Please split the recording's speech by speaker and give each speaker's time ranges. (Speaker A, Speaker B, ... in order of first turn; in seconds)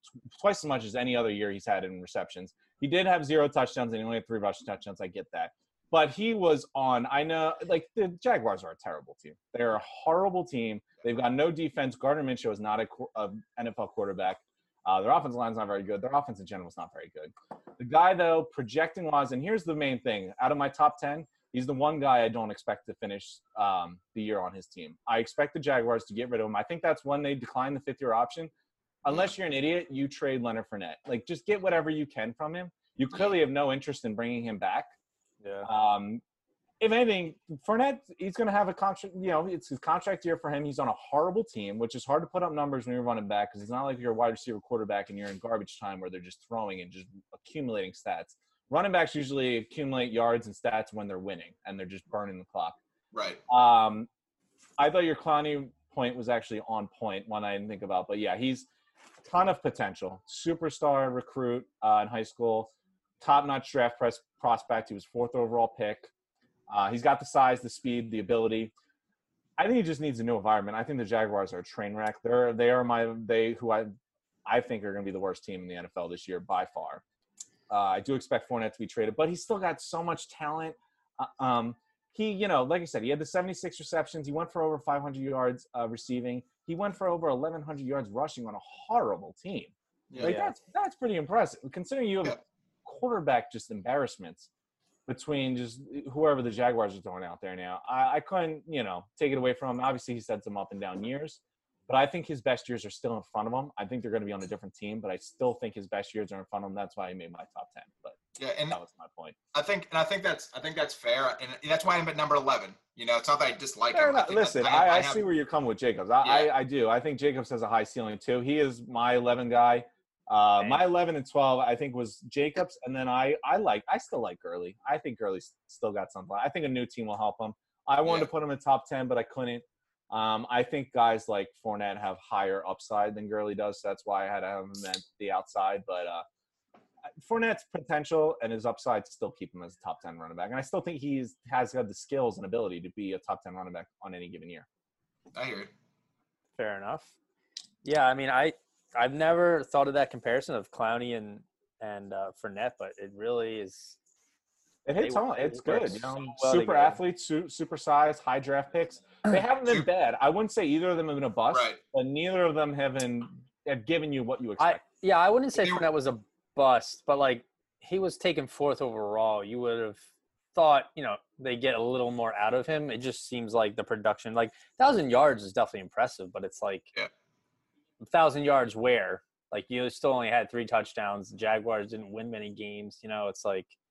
Speaker A: 0.3-28.5, 29.0-34.9, 35.6-36.2, 36.8-52.8, 53.5-54.1, 54.8-58.7, 59.2-62.7, 63.2-66.1, 66.7-68.7, 69.6-73.9, 74.5-77.0, 77.7-94.5, 95.1-108.2, 108.7-109.4, 113.9-136.2, 137.2-144.7, 154.8-164.8
Speaker B: 35.4-35.7, 90.2-90.5, 120.6-120.8, 146.6-147.1, 147.8-154.0, 155.0-157.0, 164.6-170.0, 170.5-176.9, 178.0-183.7
Speaker C: 53.1-53.4, 90.1-90.4, 108.4-108.8, 109.5-115.2, 116.2-116.5, 128.0-128.3, 145.3-145.7, 161.5-161.8, 165.6-165.8